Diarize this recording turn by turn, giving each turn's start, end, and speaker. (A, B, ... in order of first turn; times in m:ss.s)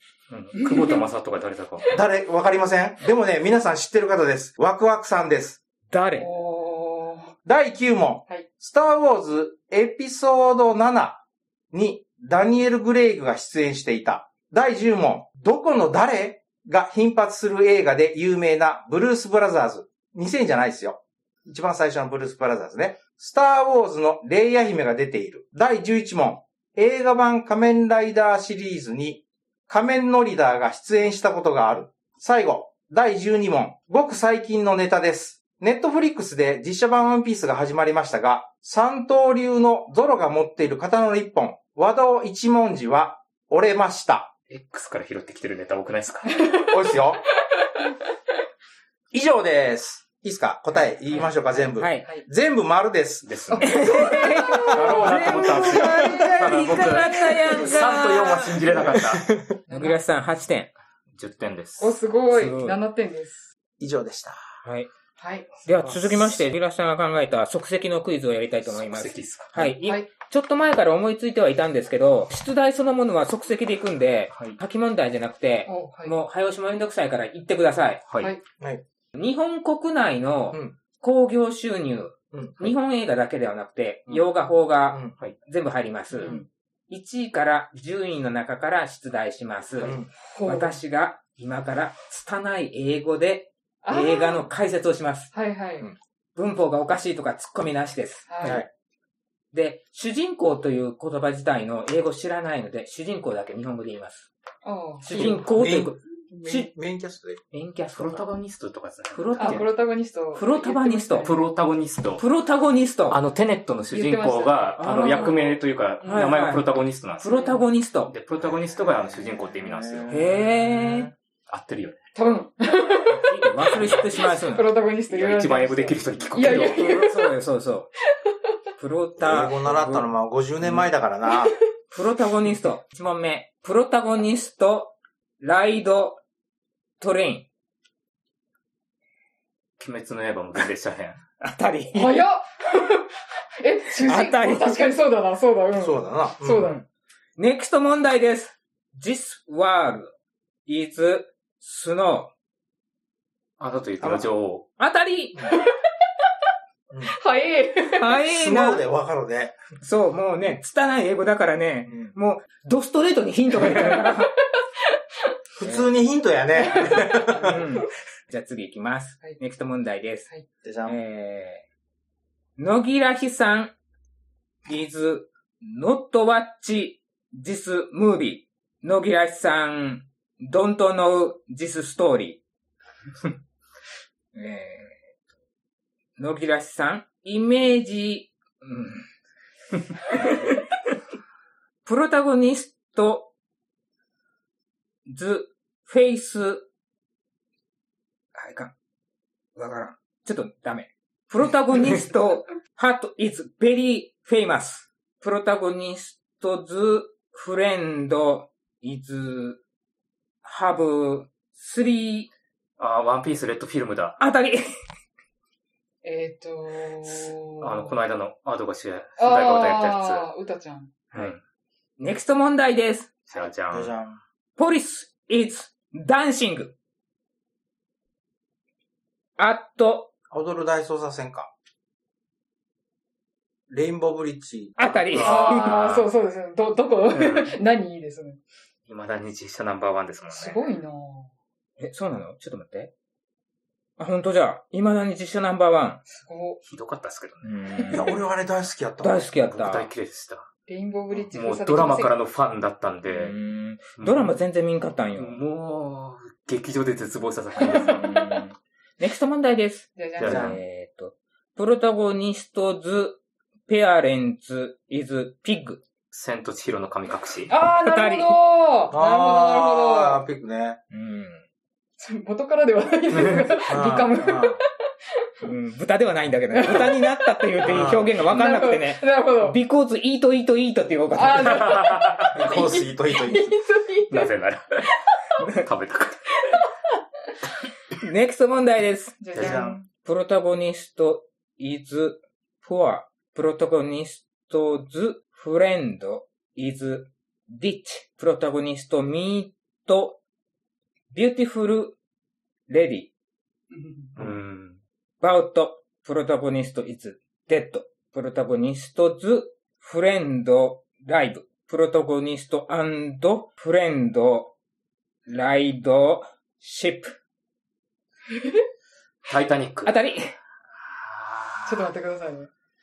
0:00.3-0:01.9 A
0:01.9-0:05.6 B
0:05.9-0:06.3 C
0:06.2-0:07.3 D
0:07.4-0:44.3 B
0:44.5-0:46.3 A
0:46.4-0:46.7 D
0:46.6-0:47.2 B
0:49.1-0:53.9 B
0:51.7-0:52.0 C
0:53.2-0:54.1 A
0:53.6-0:57.8 D
0:53.6-0:58.6 C
0:54.5-0:55.1 B
0:54.7-0:59.3 A
0:57.7-0:59.5 B
0:59.7-1:00.0 D
0:59.7-1:00.7 C
1:01.1-1:02.0 A
1:01.8-1:03.5 D
1:02.3-1:02.8 C
1:03.8-1:04.4 B
1:04.6-1:04.9 C
1:05.2-1:05.5 D
1:05.6-1:06.4 A
1:05.6-1:18.0 C
1:08.6-1:09.7 A
1:09.8-1:10.1 D
1:14.3-1:14.6 A
1:15.6-1:16.1 D
1:18.0-1:18.3 A
1:19.1-1:35.3 C
1:22.3-1:22.7 B
1:26.1-1:26.4 D
1:29.8-1:30.1 B
1:30.2-1:30.8 D
1:33.8-1:34.4 D
1:35.3-1:35.9 D
1:36.4-1:38.6 C
1:38.3-1:38.6 D
1:39.5-1:44.3 C
1:44.6-1:45.4 D
1:45.0-1:46.7 C
1:45.1-1:47.4 B
1:47.5-1:48.2 C
1:47.9-1:49.7 A
1:49.1-1:49.7 C
1:49.4-1:51.4 D
1:50.3-1:51.3 C
1:51.2-1:52.2 A
1:52.2-1:53.2 C
1:53.1-2:00.2 A
1:53.9-1:56.3 D
1:54.8-1:55.5 C
1:56.0-1:58.1 C
1:57.3-1:57.6 D
1:58.4-2:01.1 B
2:00.1-2:01.1 C
2:01.5-2:02.0 A
2:02.1-2:07.3 D
2:03.1-2:04.7 C
2:03.9-2:04.2 A
2:05.1-2:06.8 A
2:06.5-2:07.9 C
2:08.8-2:10.1 C
2:09.2-2:11.6 B
2:10.6-2:10.9 C
2:11.9-2:16.2 C
2:17.0-2:17.5 C
2:19.8-2:21.2 A
2:21.4-2:22.2 C
2:21.9-2:26.8 D
2:24.0-2:24.9 C
2:25.8-2:26.7 B
2:27.4-2:30.1 C
2:30.6-2:32.3 C
2:33.6-2:34.6 A
2:34.0-2:34.3 B
2:34.8-2:35.4 C
2:37.0-2:38.1 D
2:37.9-2:38.9 C
2:38.3-2:39.6 B
2:39.8-2:44.3 C
2:41.9-2:42.1 B
2:43.7-2:44.1 D
2:45.6-2:47.6 B
2:45.6-2:45.9 C
2:46.7-2:50.3 C
2:50.6-2:51.0 B
2:50.8-2:51.6 C
2:52.6-2:53.7 C
2:54.7-3:02.4 C
3:04.3-3:05.0 C
3:06.2-3:09.0 C
3:10.1-3:10.4 C
3:11.8-3:13.3 C
3:15.0-3:16.7 C
3:18.4-3:18.7 C
3:19.6-3:29.6 C
3:30.4-3:32.3 C
3:32.8-3:34.2 A
3:34.2-3:34.7 C
3:36.0-3:37.8 D
3:37.6-3:40.2 A
3:39.2-3:40.9 D
3:41.1-3:41.4 A
3:42.0-3:43.1 C
3:43.3-3:43.9 A
3:43.7-3:44.2 B
3:44.6-3:46.8 C
3:49.4-3:50.1 C
3:50.3-3:51.5 B
3:53.7-3:54.8 B
3:54.8-3:55.8 C
3:55.1-3:56.1 A
3:55.2-3:58.4 D
3:57.1-3:57.6 A
3:58.9-4:00.6 A
4:00.3-4:01.3 D
4:01.8-4:02.9 C
4:04.0-4:06.0 C
4:06.1-4:06.6 D
4:06.6-4:08.2 A
4:07.4-4:08.1 C
4:07.9-4:09.2 B
4:09.0-4:09.9 C
4:09.4-4:10.5 A
4:10.7-4:12.2 D
4:11.1-4:13.4 A
4:13.1-4:15.4 C
4:14.0-4:14.3 A
4:15.2-4:18.0 A
4:17.6-4:25.8 C
4:20.0-4:20.4 D
4:20.2-4:20.6 A
4:20.2-4:20.6 B
4:26.1-4:27.5 A
4:27.5-4:30.2 D
4:27.5-4:28.4 C
4:28.9-4:30.8 B
4:30.9-4:31.4 C
4:32.0-4:34.6 D
4:33.2-4:34.6 B
4:35.4-4:41.8 C
4:36.5-4:37.1 D
4:37.6-4:38.2 B
4:38.3-4:39.6 D
4:41.1-4:44.3 D
4:41.3-4:42.4 A
4:42.3-4:43.5 B
4:44.1-4:46.4 A
4:48.0-4:49.4 C
4:49.2-4:49.9 D
4:49.3-4:49.6 A
4:49.3-4:49.8 B
4:50.0-5:00.2 C
5:01.1-5:02.0 C
5:02.7-5:03.1 C
5:03.7-5:04.1 D
5:04.1-5:04.8 A
5:05.2-5:14.5 C
5:15.3-5:17.1 C
5:18.3-5:18.6 D
5:19.2-5:19.9 A
5:19.8-5:20.3 C
5:20.8-5:21.9 A
5:21.6-5:22.5 D